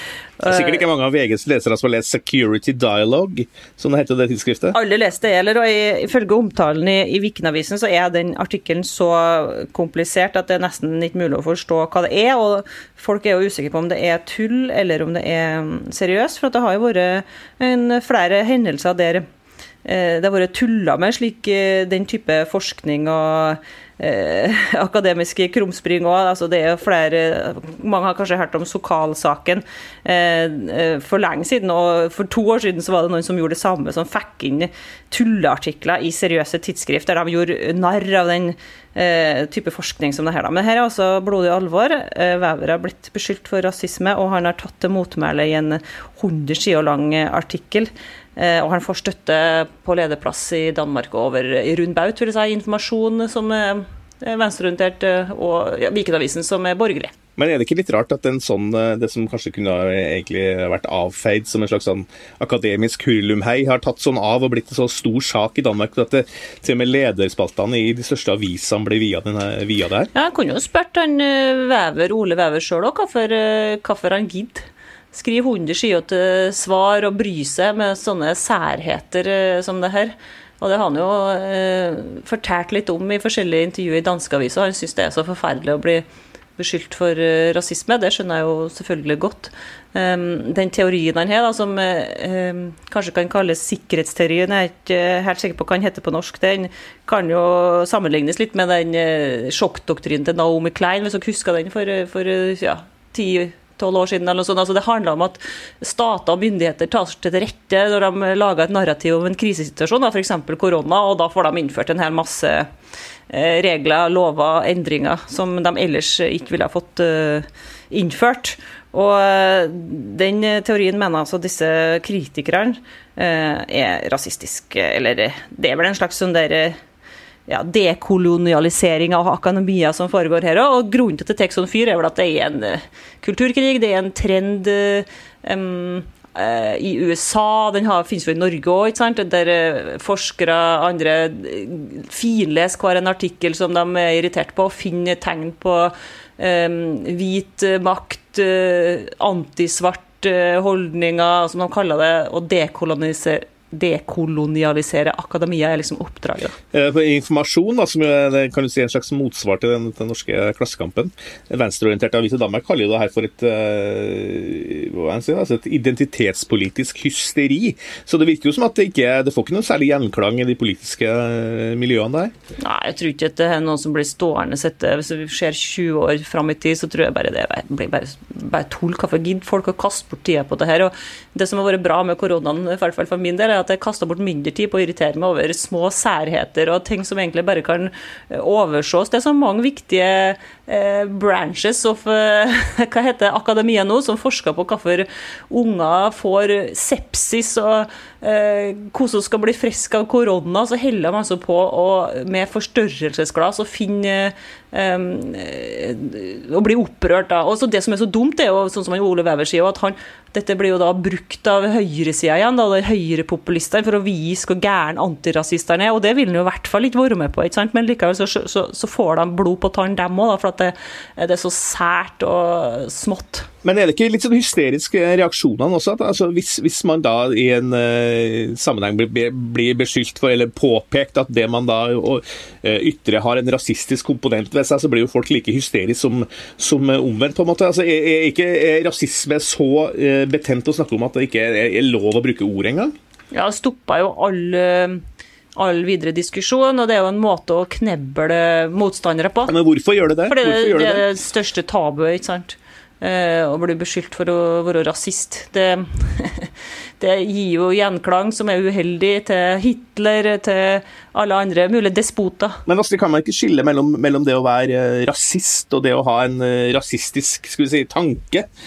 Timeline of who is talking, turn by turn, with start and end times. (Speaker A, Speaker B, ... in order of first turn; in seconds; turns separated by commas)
Speaker A: 0.4-0.8, Speaker B: 0.4-4.8, Speaker A: 4.7-19.2, Speaker A: 19.8-57.1, Speaker B: 57.4-70.1, Speaker A: 70.1-86.0, Speaker A: 86.6-112.7, Speaker A: 113.3-126.8, Speaker A: 127.5-156.5, Speaker B: 156.7-172.3, Speaker A: 172.6-223.5, Speaker B: 223.6-242.9, Speaker A: 243.3-245.0, Speaker A: 245.6-249.5, Speaker B: 249.5-251.0, Speaker A: 250.3-262.6, Speaker B: 262.6-268.5